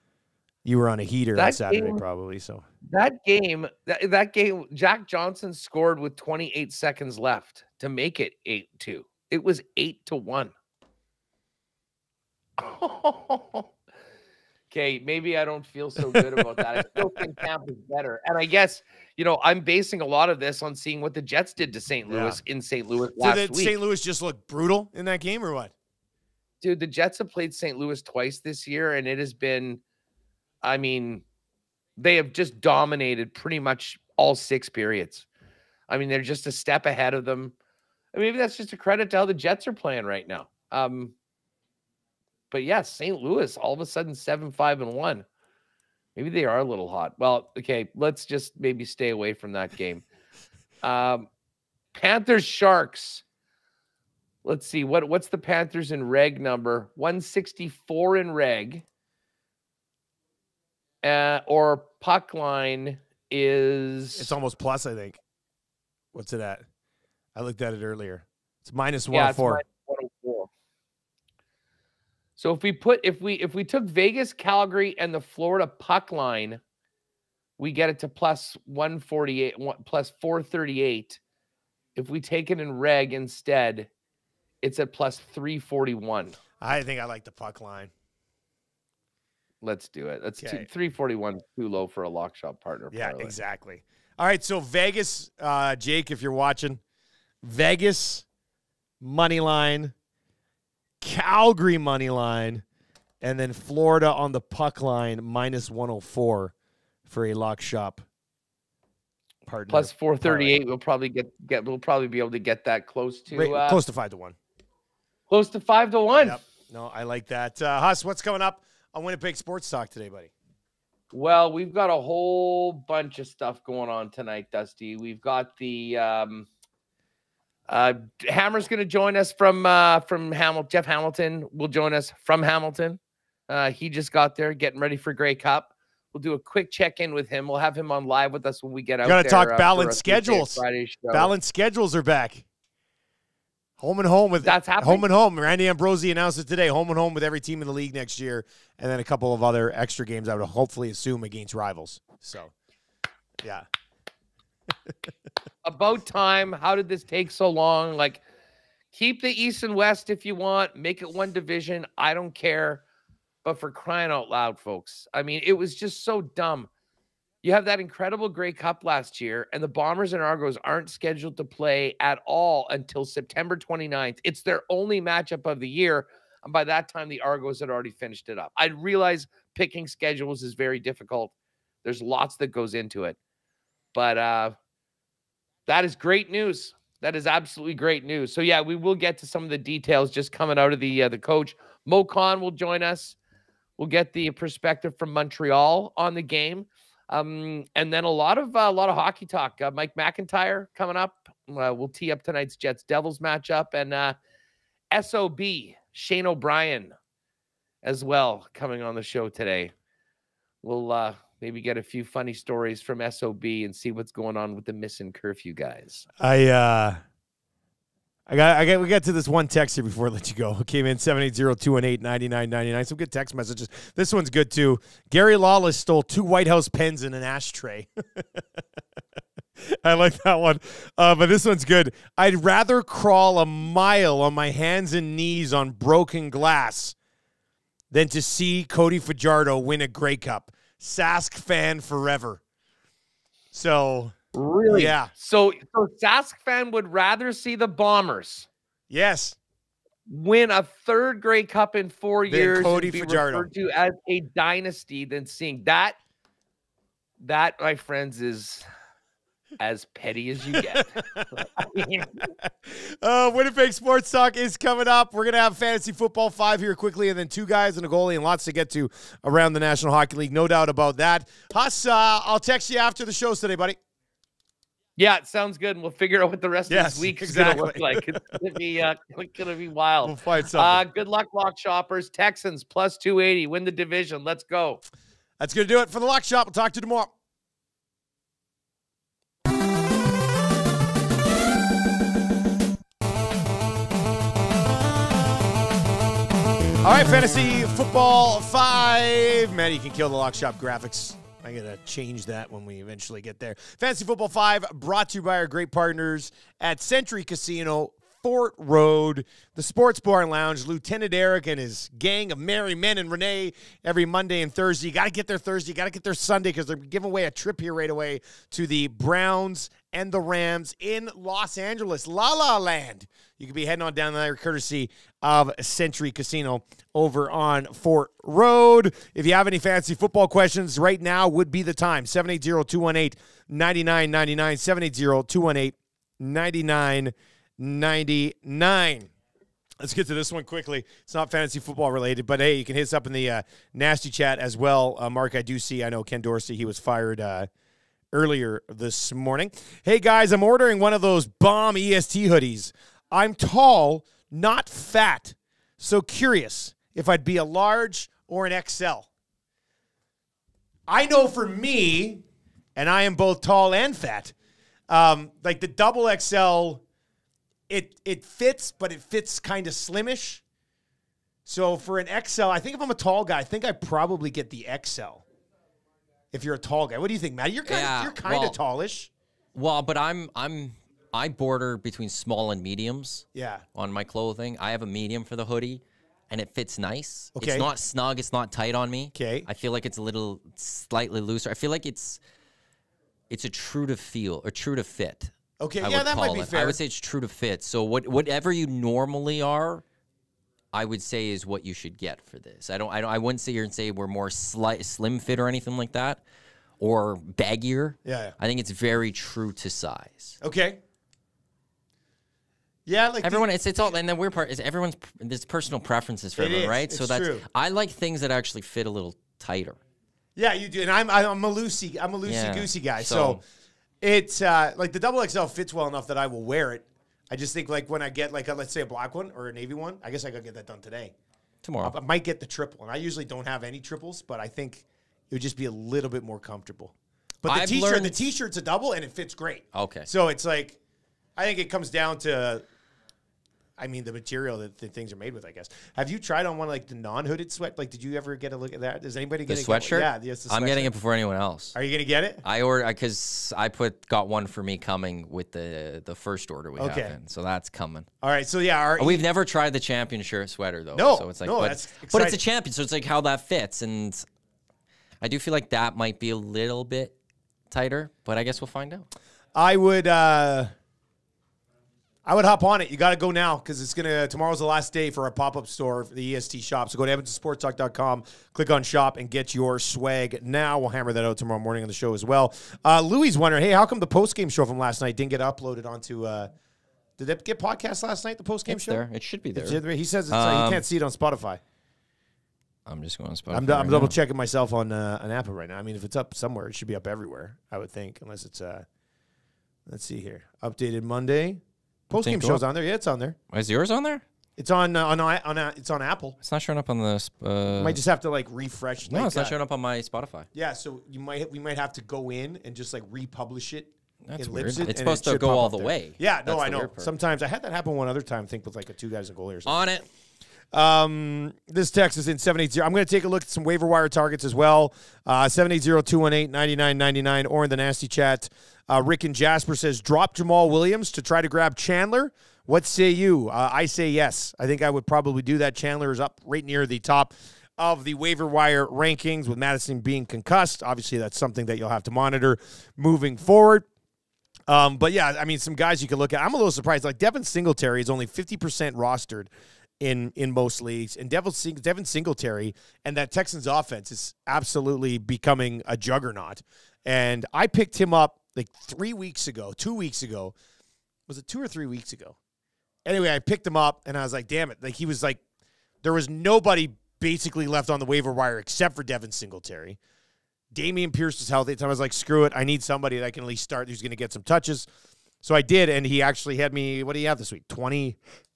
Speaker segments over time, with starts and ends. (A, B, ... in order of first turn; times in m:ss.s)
0:00.6-0:02.6 A
0:01.4-0:02.0 B
0:02.9-0:10.5 B
0:12.6-0:13.7 B
0:14.7-0:23.7 B
0:16.0-0:17.5 A
0:22.1-0:22.4 A
0:23.2-0:25.7 A
0:26.6-0:29.8 B
0:30.6-0:31.2 B
0:32.0-0:35.3 B
0:35.9-0:37.5 B
0:38.1-0:41.1 B
0:42.5-0:45.3 B
0:46.2-0:50.1 B
0:50.8-0:51.3 B
0:51.9-0:53.2 B
0:54.4-0:58.8 B
1:01.0-1:04.3 B
1:04.2-1:05.2 A
1:06.1-1:06.6 A
1:07.4-1:09.6 A
1:09.1-1:10.5 B
1:12.4-1:16.6 B
1:17.6-1:21.2 B
1:22.0-1:23.9 B
1:24.6-1:26.4 B
1:26.6-1:27.9 A
1:29.6-1:33.4 B
1:30.4-1:30.7 A
1:32.9-1:36.8 A
1:37.4-1:38.2 A
1:39.0-1:39.9 A
1:41.0-1:42.6 A
1:43.2-1:46.5 A
1:47.1-1:48.0 A
1:49.5-1:50.6 A
1:49.7-1:53.8 B
1:53.3-1:54.4 A
1:55.3-1:56.4 B
1:56.2-2:00.3 A
2:01.1-2:06.5 B
2:07.7-2:21.3 B
2:19.0-2:22.4 A
2:23.8-2:32.5 A
2:24.4-2:25.1 B
2:35.6-2:38.2 B
2:38.9-2:42.8 B
2:43.4-2:46.7 B
2:47.4-3:03.2 B
3:03.9-3:04.6 B
3:05.7-3:13.2 B
3:13.8-3:24.2 B
3:24.9-3:27.0 B
3:27.8-3:29.7 B
3:30.6-3:36.1 B
3:36.2-3:37.0 A
3:38.3-3:48.4 A
3:49.6-3:57.0 A
3:57.9-4:02.4 A
4:03.5-4:04.2 A
4:04.3-4:08.5 B
4:04.7-4:05.1 A
4:08.9-4:09.4 A
4:10.1-4:16.0 B
4:12.3-4:13.5 A
4:17.2-4:18.7 B
4:19.6-4:22.3 B
4:20.5-4:21.3 A
4:22.4-4:33.8 A
4:35.0-4:44.8 B
4:36.7-4:38.3 A
4:40.0-4:40.8 A
4:45.4-4:47.1 A
4:56.8-5:39.1 A
5:39.8-5:47.5 A
5:48.1-5:59.1 A
6:00.9-6:02.2 A
6:02.8-6:04.3 A
6:04.9-6:06.8 A
6:07.7-6:10.4 A
6:11.5-6:15.2 A
6:16.3-6:19.1 A
6:17.7-6:18.6 C
6:19.5-6:32.2 C
6:23.4-6:23.6 A
6:27.4-6:27.7 A
6:29.2-6:29.5 A
6:33.3-6:39.8 C
6:35.6-6:36.8 A
6:40.7-6:46.2 C
6:46.8-6:50.4 C
6:48.0-6:48.4 A
6:50.4-6:50.8 A
6:52.9-6:53.5 A
6:53.2-6:59.8 C
6:56.4-6:57.4 A
7:00.4-7:03.4 A
7:02.2-7:03.4 C
7:04.0-7:11.1 A
7:11.6-7:12.0 C
7:11.8-7:20.8 A
7:17.5-7:18.2 C
7:19.7-7:20.1 C
7:21.4-7:22.6 A
7:23.8-7:30.9 A
7:29.5-7:31.8 C
7:31.8-7:32.4 A
7:32.4-7:38.1 C
7:36.8-7:37.2 A
7:38.2-7:39.2 A
7:39.0-7:44.3 C
7:40.9-7:42.4 A
7:45.2-7:47.1 C
7:47.7-7:49.1 C
7:49.6-7:50.7 A
7:52.2-8:06.5 A
8:07.2-8:09.0 A
8:08.7-8:10.8 C
8:09.6-8:11.6 A
8:12.9-8:14.2 C
8:13.5-8:18.8 A
8:19.9-8:23.4 A
8:22.2-8:22.6 C
8:23.5-8:24.2 C
8:24.6-8:26.4 A
8:26.4-8:28.0 C
8:27.8-8:29.6 A
8:29.1-8:30.5 C
8:30.5-8:39.8 A
8:34.2-8:37.1 C
8:39.7-8:40.1 C
8:40.7-9:03.9 A
9:04.7-9:20.6 A
9:21.3-9:22.4 A
9:23.0-9:25.4 A
9:26.0-9:30.0 A
9:30.7-9:34.9 A
9:35.4-9:38.2 A